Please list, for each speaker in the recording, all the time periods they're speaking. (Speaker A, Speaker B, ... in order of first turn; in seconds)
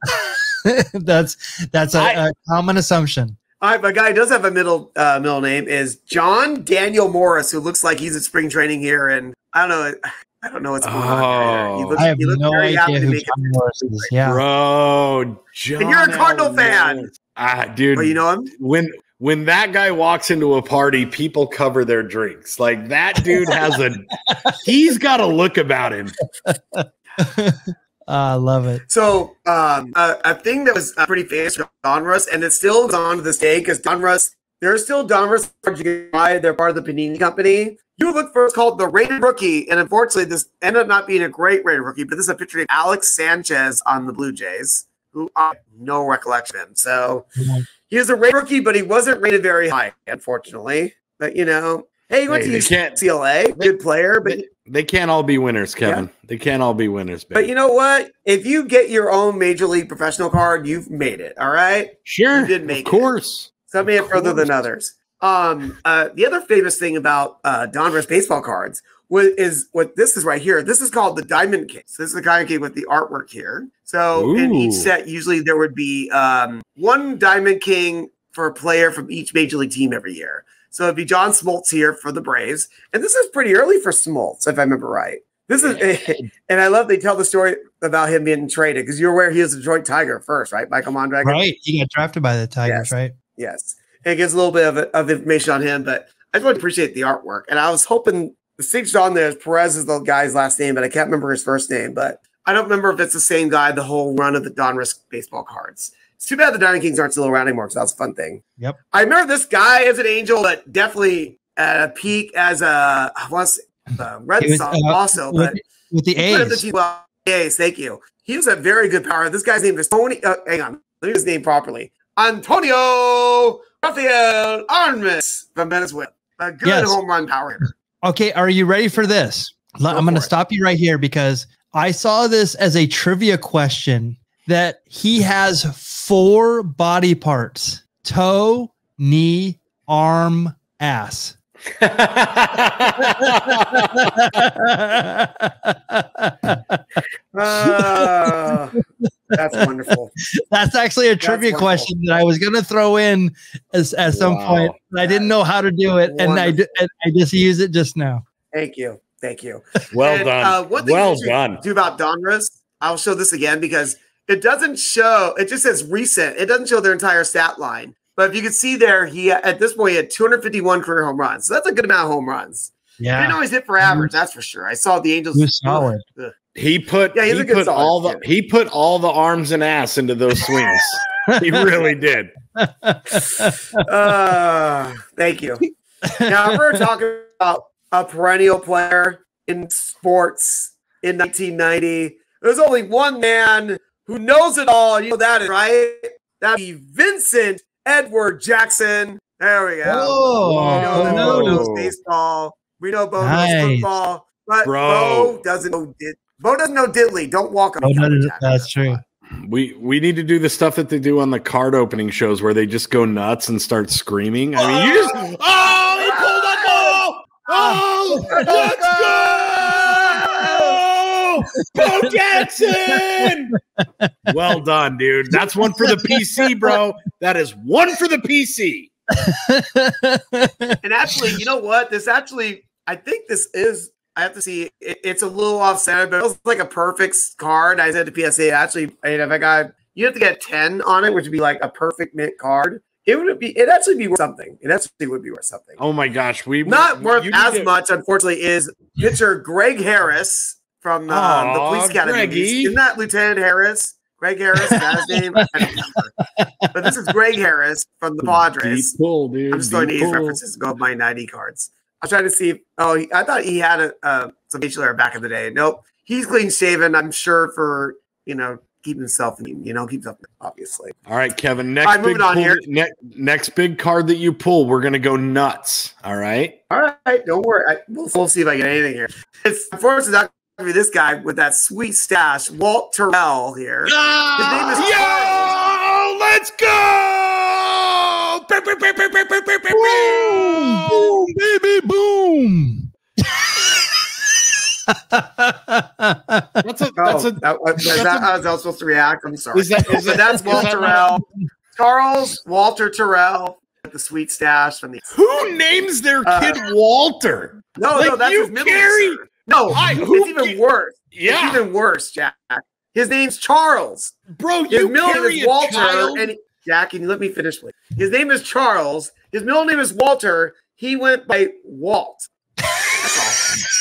Speaker A: 0.1-3.4, 12.0-14.4, 26.5-28.8, 47.4-47.6, 91.2-93.1, 114.4-116.6, 126.6-127.0, 128.0-141.3, 143.0-149.6, 150.3-158.2, 173.0-174.1, 175.3-176.0, 181.3-181.7, 182.6-183.8, 186.0-186.6, 199.8-201.6, 203.2-203.9, 207.8-209.0, 218.1-218.8, 221.6-224.6, 225.3-226.8, 229.1-231.4, 254.6-255.4, 256.2-256.6, 289.7-294.0, 294.9-296.6, 300.5-301.2
Speaker B: 1.9-2.2, 10.8-12.0, 14.2-26.2, 52.3-53.0, 54.2-57.5, 62.0-64.5, 74.1-74.9, 85.6-86.3, 141.8-143.9, 154.1-154.7, 159.9-161.6, 176.5-182.3, 200.5-201.9, 204.6-205.3, 209.4-223.5, 224.3-228.9, 245.8-247.7, 251.1-252.8, 258.2-260.4, 271.1-276.6, 283.9-291.2, 296.6-298.3, 299.5-301.0, 305.1-309.2, 309.7-310.6, 311.1-311.6, 314.4-316.3
Speaker C: 3.6-14.1, 15.8-17.1, 17.9-18.5, 28.9-47.3, 47.9-54.5, 57.3-63.1, 63.7-91.4, 92.6-115.6, 116.2-127.7, 129.9-130.3, 147.3-148.7, 149.3-150.1, 151.2-151.9, 155.0-155.3, 156.1-156.7, 158.5-176.3, 177.1-178.2, 183.8-185.6, 186.2-209.0, 214.7-215.1, 216.0-219.6, 220.2-220.8, 230.8-245.8, 246.6-256.1, 256.7-258.9, 259.5-271.0, 271.8-272.6, 276.7-285.5, 297.0-305.2, 306.2-306.6, 307.7-314.1, 314.7-322.3, 323.0-323.5